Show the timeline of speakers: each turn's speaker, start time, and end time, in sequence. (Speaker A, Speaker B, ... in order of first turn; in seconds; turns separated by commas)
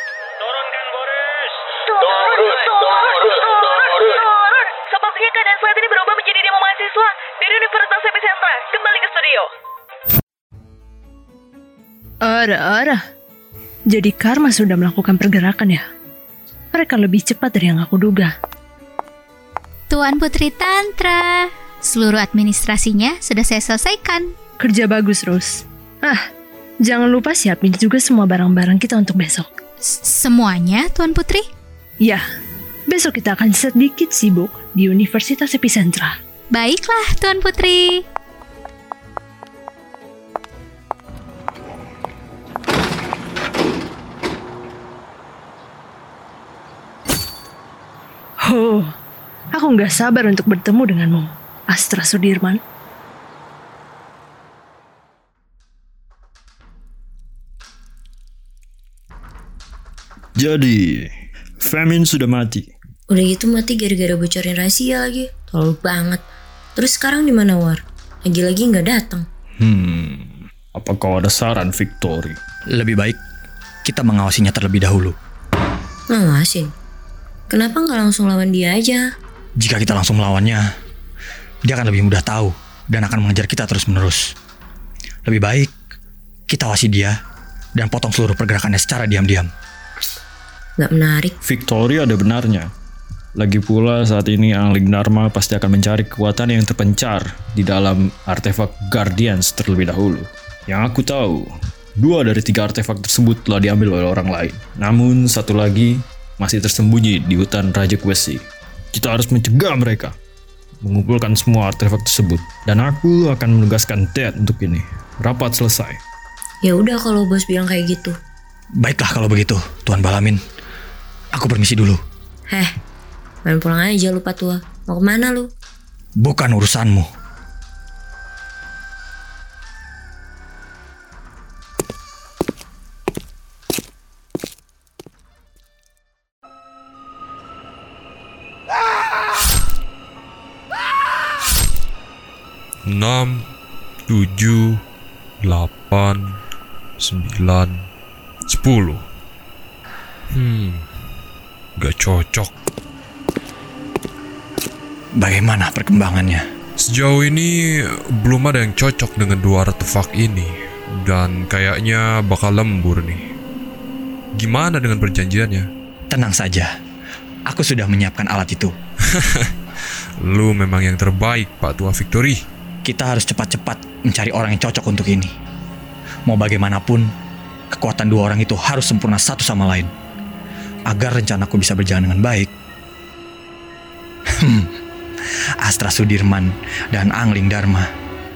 Speaker A: 0.4-2.8, Speaker B: 1.9-9.5, Speaker C: 12.2-13.0, Speaker C: 13.9-15.8, Speaker C: 16.7-18.3, Speaker D: 19.9-24.3, Speaker C: 24.6-26.2, Speaker C: 26.8-29.5, Speaker D: 29.8-31.5, Speaker C: 32.9-36.1, Speaker D: 36.5-38.0, Speaker C: 48.4-48.9, Speaker C: 49.5-52.6, Speaker E: 60.4-62.7, Speaker F: 63.1-66.2, Speaker F: 66.8-69.2, Speaker E: 69.6-72.3, Speaker G: 72.7-73.2, Speaker G: 73.8-75.1, Speaker F: 76.1-76.7, Speaker F: 77.5-79.1, Speaker G: 79.6-80.6, Speaker G: 81.7-84.2, Speaker G: 85.2-85.7, Speaker G: 86.5-87.1, Speaker G: 87.8-89.5, Speaker F: 90.8-91.3, Speaker E: 91.4-92.7, Speaker E: 93.4-101.5, Speaker E: 102.0-108.4, Speaker E: 108.9-110.1, Speaker E: 110.8-116.0, Speaker F: 116.6-118.2, Speaker G: 118.8-120.4, Speaker G: 121.3-122.0, Speaker F: 123.4-125.5, Speaker G: 126.2-127.1, Speaker H: 142.8-143.4, Speaker H: 144.1-144.8, Speaker H: 145.4-146.4, Speaker H: 147.0-147.9, Speaker H: 148.5-149.0, Speaker H: 150.3-150.8, Speaker H: 151.8-152.5, Speaker G: 155.2-156.4, Speaker H: 156.8-163.2, Speaker H: 164.3-165.7, Speaker G: 166.1-166.7, Speaker G: 167.5-168.7, Speaker H: 169.2-169.5, Speaker H: 170.2-172.4, Speaker G: 172.8-175.3, Speaker G: 176.3-177.1, Speaker G: 177.7-179.9, Speaker G: 180.9-182.5, Speaker G: 184.4-184.7, Speaker G: 185.6-187.9